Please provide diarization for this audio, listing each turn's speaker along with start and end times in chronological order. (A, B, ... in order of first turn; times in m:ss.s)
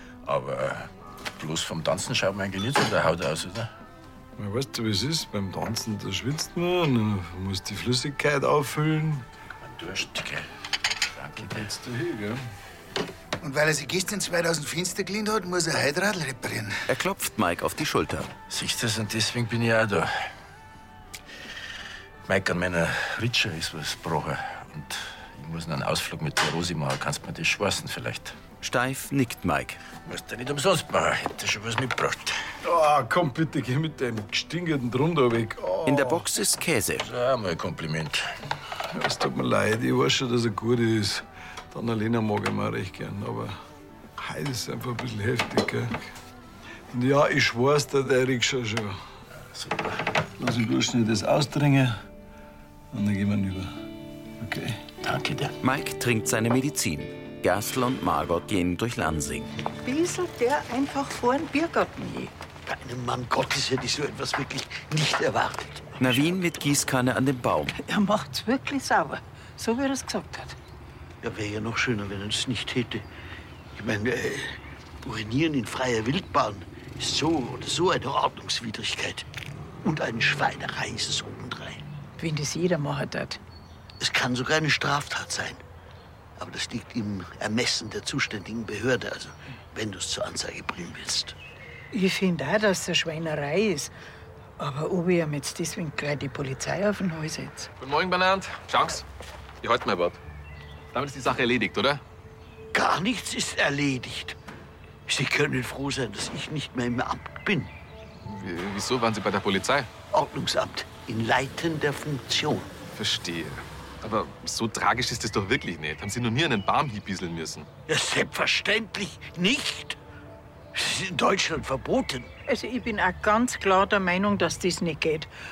0:00.2-0:03.7 A
0:04.4-0:09.2 B
0:09.6-0:10.5 A
0:11.2-0:11.7 A
0:11.4-0:12.4 B
0:13.4-0:16.8 C
0:16.9-0:18.3 D
0:18.5-0:20.2 A
0:22.3-0:28.3 A
0:28.6-0:29.8 D
0:30.0-0:32.4 A
0:32.6-0:36.2 B
0:35.8-0:37.1 D
0:37.0-0:38.2 A
0:38.9-0:43.6 B
0:44.2-0:46.0 B
0:46.9-0:49.0 B
0:49.5-0:50.0 A
0:50.4-0:52.0 B
0:52.9-0:53.7 B
0:54.4-0:54.8 B
0:55.0-0:55.5 A
0:55.6-0:59.5 D
0:59.8-1:02.3 E
1:02.6-1:06.0 F
1:06.0-1:07.7 D
1:07.8-1:10.6 E
1:11.2-1:13.0 F
1:13.7-1:19.2 F
1:19.8-1:21.8 F
1:22.2-1:23.4 E
1:24.0-1:25.6 F
1:26.4-1:31.3 F
1:31.9-1:33.9 E
1:34.6-1:37.7 E
1:37.8-1:39.0 G
1:39.6-1:40.2 G
1:40.9-1:42.0 G
1:42.7-1:44.4 F
1:45.1-1:47.7 F
1:48.2-1:49.9 G
1:50.1-1:52.7 F
1:52.9-1:57.7 G
1:57.9-2:00.0 F
2:00.7-2:02.3 F
2:02.5-2:05.3 E